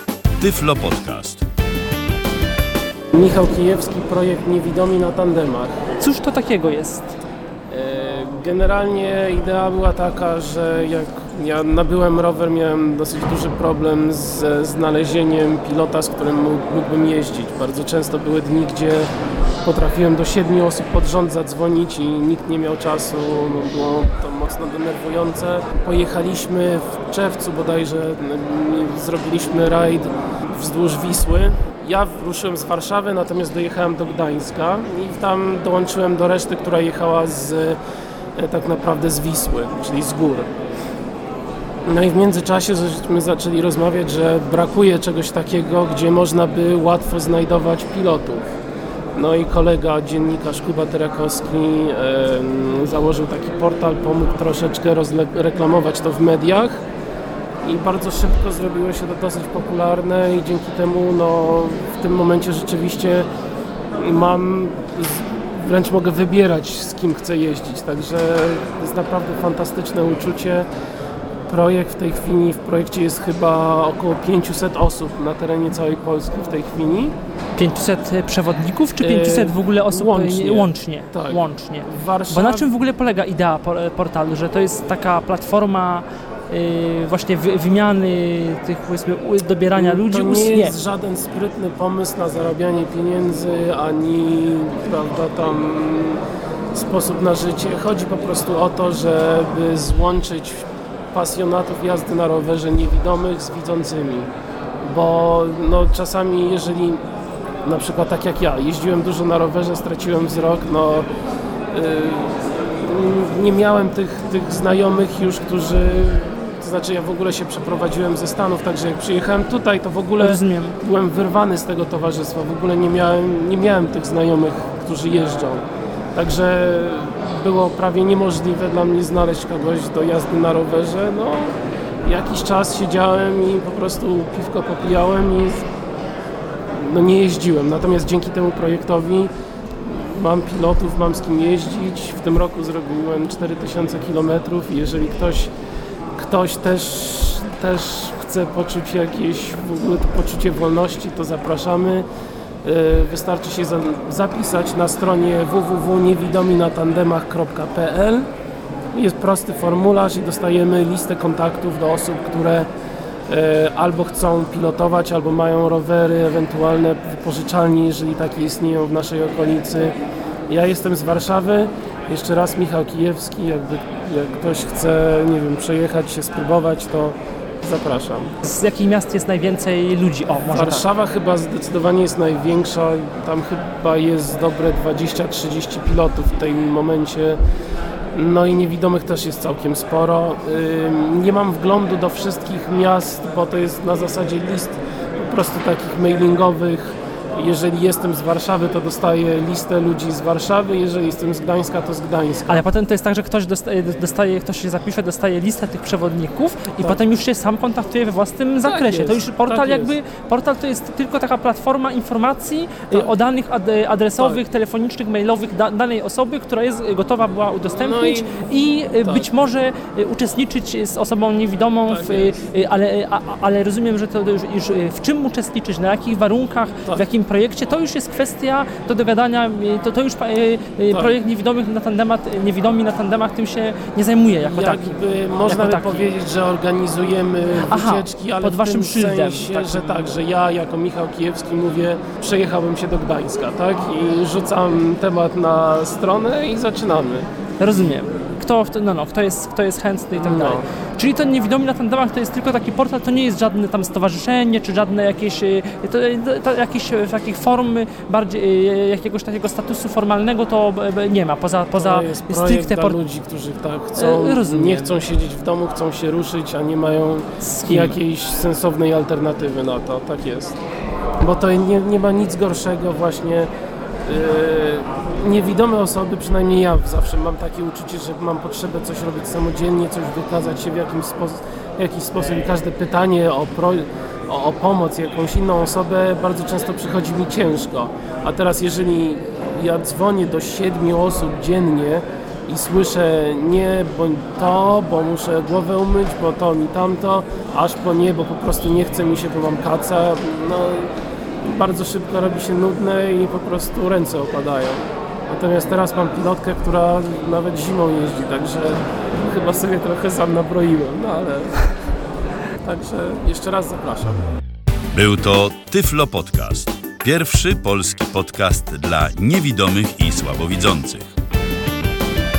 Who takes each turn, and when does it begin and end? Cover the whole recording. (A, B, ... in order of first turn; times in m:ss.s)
0:00.4-0:01.4 A
0:03.1-0:05.8 B
0:06.0-0:07.1 C
0:07.7-0:19.1 B
0:19.6-0:37.8 B
0:38.4-0:40.5 B
0:41.8-0:48.4 B
0:49.2-0:56.8 B
0:57.6-1:03.3 B
1:04.0-1:10.7 B
1:11.5-1:17.1 B
1:17.6-1:30.7 C
1:19.0-1:22.7 B
1:29.7-1:36.2 B
1:36.7-1:44.3 B
1:44.8-1:47.0 B
1:47.6-1:51.1 B
1:51.7-2:11.5 B
2:00.2-2:00.8 C
2:12.0-2:15.7 B
2:16.7-2:19.3 B
2:19.8-2:25.5 B
2:26.1-2:32.1 B
2:32.6-2:38.3 B
2:38.9-2:42.7 B
2:43.3-2:50.0 B
2:50.5-2:58.3 B
2:58.4-3:00.8 C
3:00.5-3:07.4 B
3:08.1-3:22.6 B
3:22.5-3:56.1 C
3:28.6-3:29.9 B
3:34.2-3:34.4 B
3:37.7-3:39.3 B
3:41.8-3:42.5 B
3:50.9-3:51.2 B
3:54.4-4:07.3 B
3:57.6-4:00.1 C
4:07.6-4:23.0 C
4:10.2-4:10.6 B
4:21.7-4:30.6 B
4:24.0-4:24.9 C
4:27.4-4:28.0 C
4:31.2-4:33.5 B
4:34.0-5:11.8 B
5:12.6-5:14.3 B
5:14.9-5:21.1 A